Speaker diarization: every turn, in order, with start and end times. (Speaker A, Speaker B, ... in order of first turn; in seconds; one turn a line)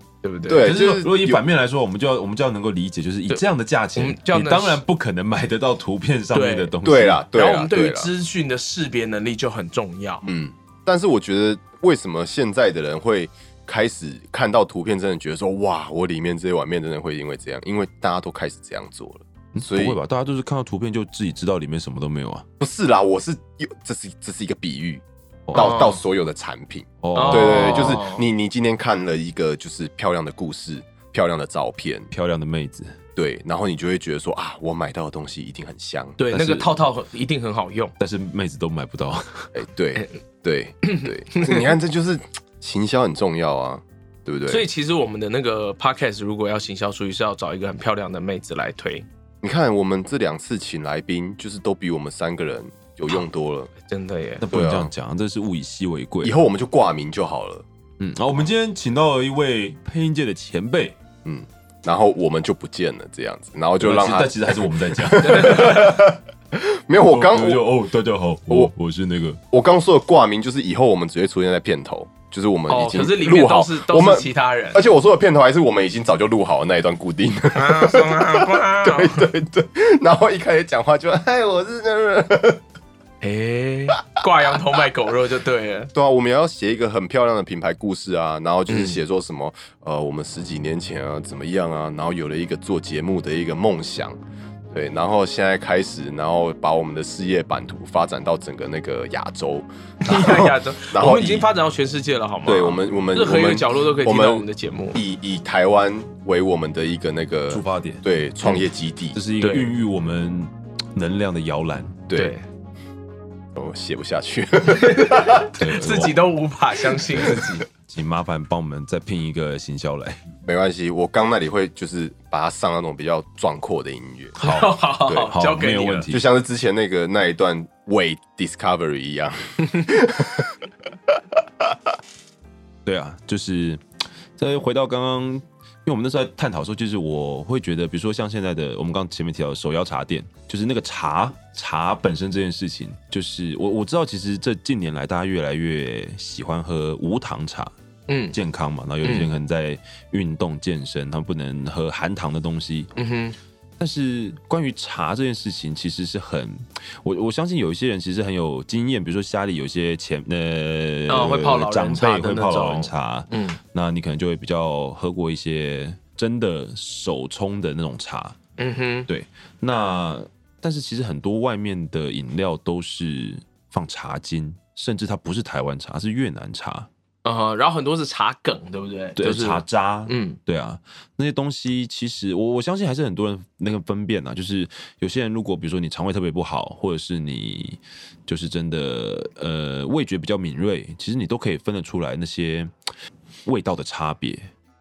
Speaker A: 0.2-0.7
Speaker B: 0.5-1.4
Speaker C: 0.6-7.2
Speaker A: 4.0-4.8
Speaker A: 6.3-6.7
Speaker B: 6.8-8.1
Speaker A: 7.3-10.2
Speaker B: 10.2-20.0
Speaker C: 19.5-22.4
Speaker B: 22.6-32.1
Speaker C: 25.5-25.8
Speaker A: 25.5-26.0
Speaker C: 27.0-28.0
Speaker A: 27.1-28.2
Speaker C: 32.1-33.0
Speaker B: 33.1-36.2
Speaker A: 36.2-37.9
Speaker C: 36.3-36.7
Speaker C: 38.0-39.5
Speaker B: 39.5-44.6
Speaker A: 40.8-41.7
Speaker A: 44.5-49.0
Speaker B: 49.4-53.7
Speaker A: 53.8-54.4
Speaker C: 54.4-56.3
Speaker B: 54.5-54.9
Speaker B: 56.2-57.6
Speaker C: 58.0-61.0
Speaker B: 61.2-67.7
Speaker C: 63.8-66.0
Speaker A: 65.2-66.0
Speaker C: 67.0-69.4
Speaker B: 69.5-82.6
Speaker A: 72.7-74.8
Speaker A: 77.5-79.3
Speaker A: 83.2-85.9
Speaker B: 85.9-94.2
Speaker A: 88.7-89.0
Speaker B: 94.7-101.5
Speaker A: 100.0-105.0
Speaker B: 102.5-109.2
Speaker C: 107.5-108.0
Speaker C: 109.1-112.1
Speaker A: 109.4-109.7
Speaker B: 112.1-112.3
Speaker A: 112.1-112.4
Speaker B: 113.5-115.5
Speaker A: 114.7-117.6
Speaker C: 115.6-116.3
Speaker C: 117.2-120.2
Speaker B: 120.4-124.4
Speaker A: 124.4-126.1
Speaker C: 124.4-126.2
Speaker B: 126.1-131.8
Speaker C: 132.8-133.8
Speaker C: 134.4-147.7
Speaker A: 148.1-148.3
Speaker C: 148.3-152.9
Speaker A: 149.0-149.3
Speaker A: 152.9-153.3
Speaker C: 153.8-168.4
Speaker A: 161.1-163.6
Speaker A: 168.6-169.1
Speaker C: 169.1-176.9
Speaker A: 177.2-180.4
Speaker C: 179.2-192.7
Speaker C: 193.4-194.5